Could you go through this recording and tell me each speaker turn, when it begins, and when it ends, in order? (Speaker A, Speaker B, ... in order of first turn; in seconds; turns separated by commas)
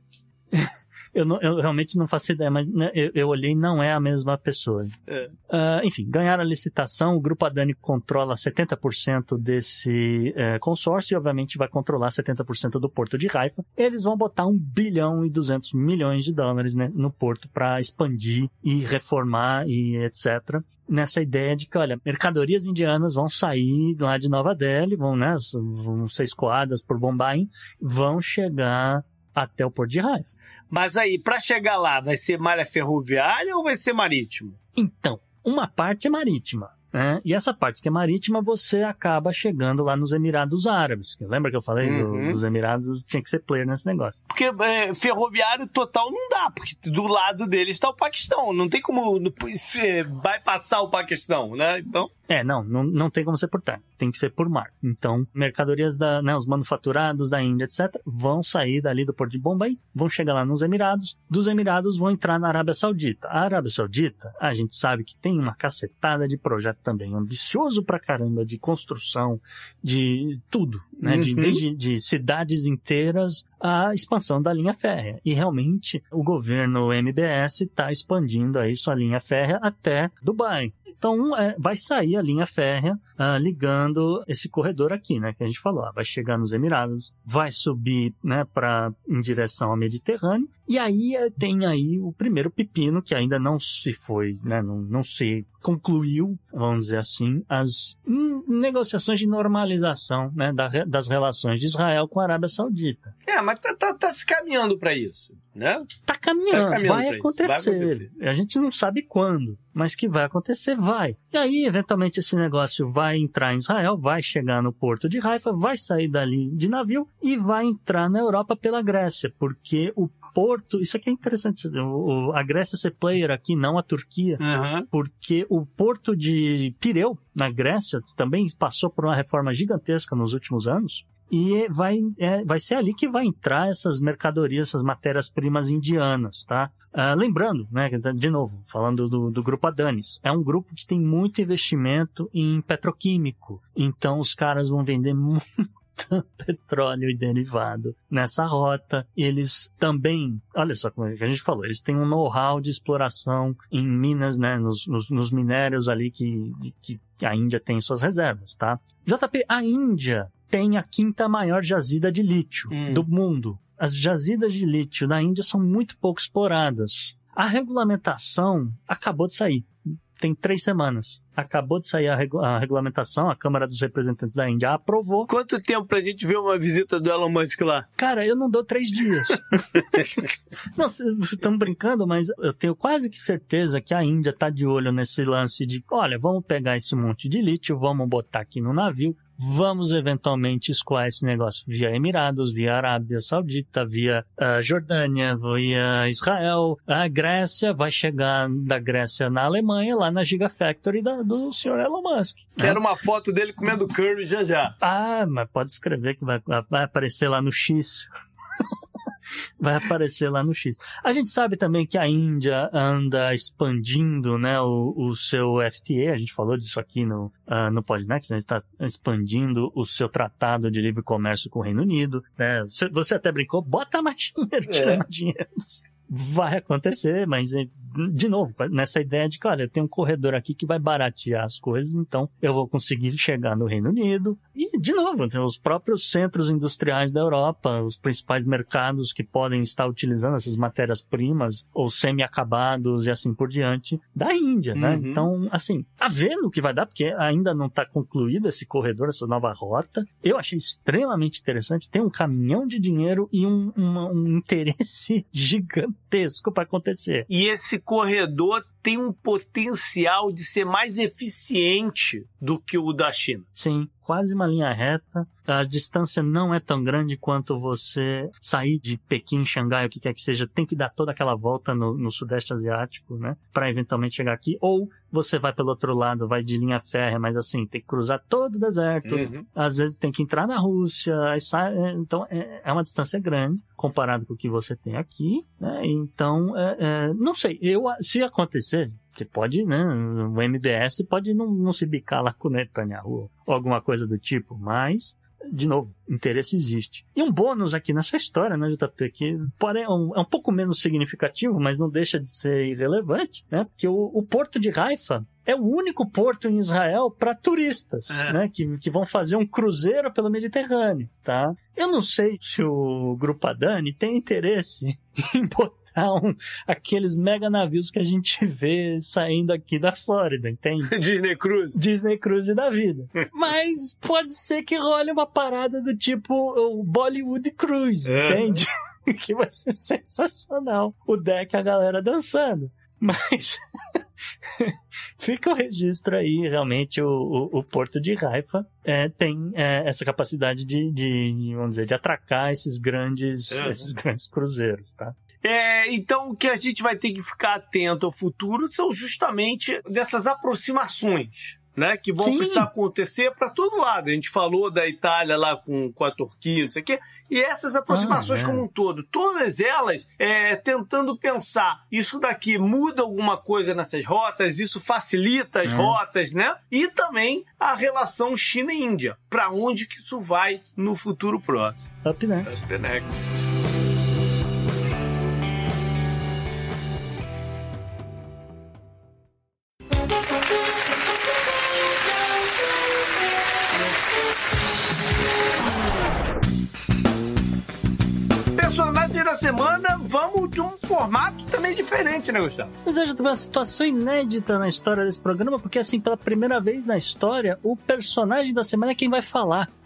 Speaker A: 0.5-4.9, Speaker A: 5.5-30.3, Speaker B: 30.7-34.6, Speaker A: 34.8-44.2, Speaker B: 41.8-42.4, Speaker B: 44.3-52.1, Speaker A: 52.3-103.1, Speaker B: 71.0-71.6, Speaker B: 103.2-105.9, Speaker A: 106.0-175.3, Speaker B: 106.5-108.1, Speaker B: 124.4-124.9, Speaker B: 162.7-163.1, Speaker B: 175.3-177.9, Speaker A: 178.0-202.8, Speaker B: 202.6-204.8, Speaker A: 204.8-208.1, Speaker A: 209.6-257.3, Speaker B: 224.7-225.0, Speaker B: 244.7-245.3, Speaker B: 257.3-263.4, Speaker A: 263.6-320.9, Speaker B: 279.0-279.4, Speaker B: 308.1-308.4, Speaker B: 320.9-321.8, Speaker A: 321.7-334.0, Speaker B: 328.1-328.6, Speaker A: 334.6-345.1, Speaker B: 343.5-343.9, Speaker B: 345.4-371.9, Speaker A: 352.2-352.7, Speaker A: 357.9-358.6, Speaker A: 365.6-366.0, Speaker A: 372.0-372.6, Speaker B: 372.4-373.4, Speaker B: 388.5-392.7, Speaker A: 392.8-399.7